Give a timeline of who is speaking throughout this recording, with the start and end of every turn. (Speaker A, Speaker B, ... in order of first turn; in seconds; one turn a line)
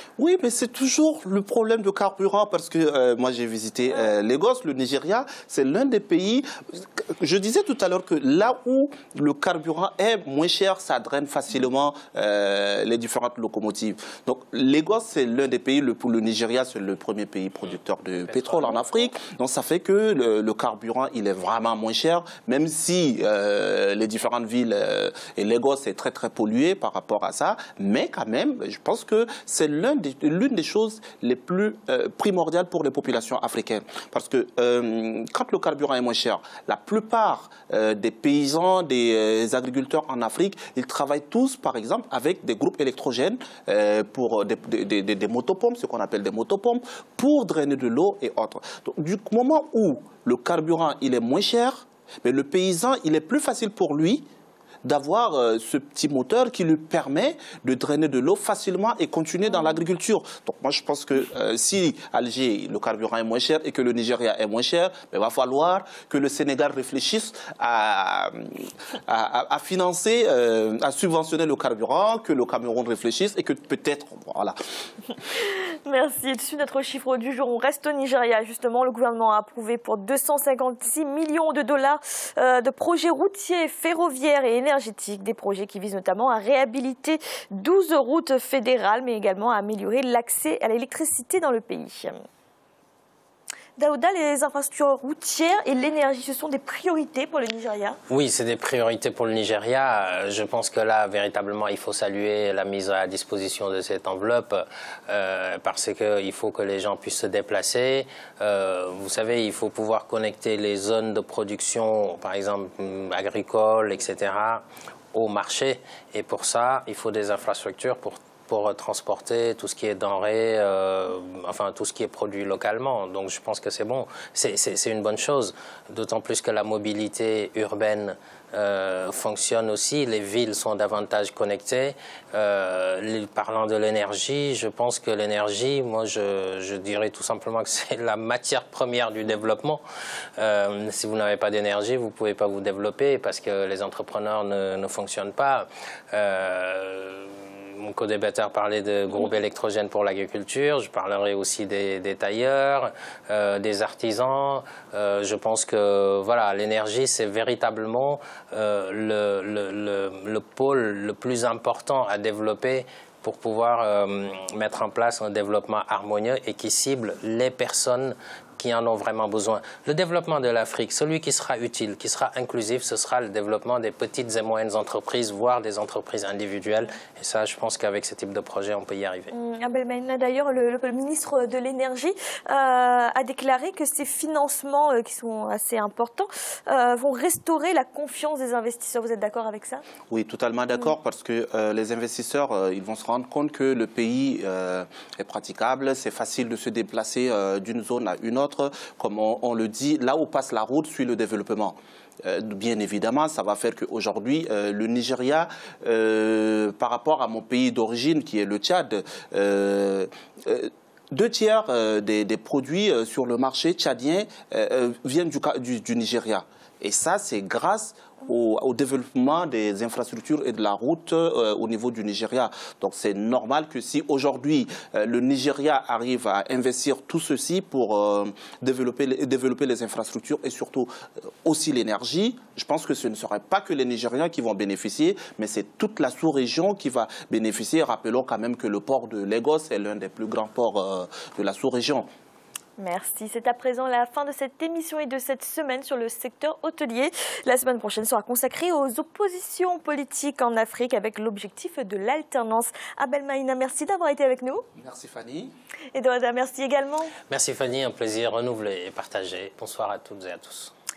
Speaker A: 0.2-54.2
Speaker B: 18.3-18.7
Speaker A: 54.8-74.5
Speaker C: 75.8-92.2
Speaker C: 93.8-98.0
Speaker B: 98.1-139.8
Speaker B: 140.4-179.3
Speaker C: 179.3-189.8
Speaker A: 190.1-230.9
Speaker A: 231.4-242.1
Speaker C: 242.8-254.6
Speaker A: 254.8-255.5
Speaker C: 255.9-257.1
Speaker B: 257.3-260.7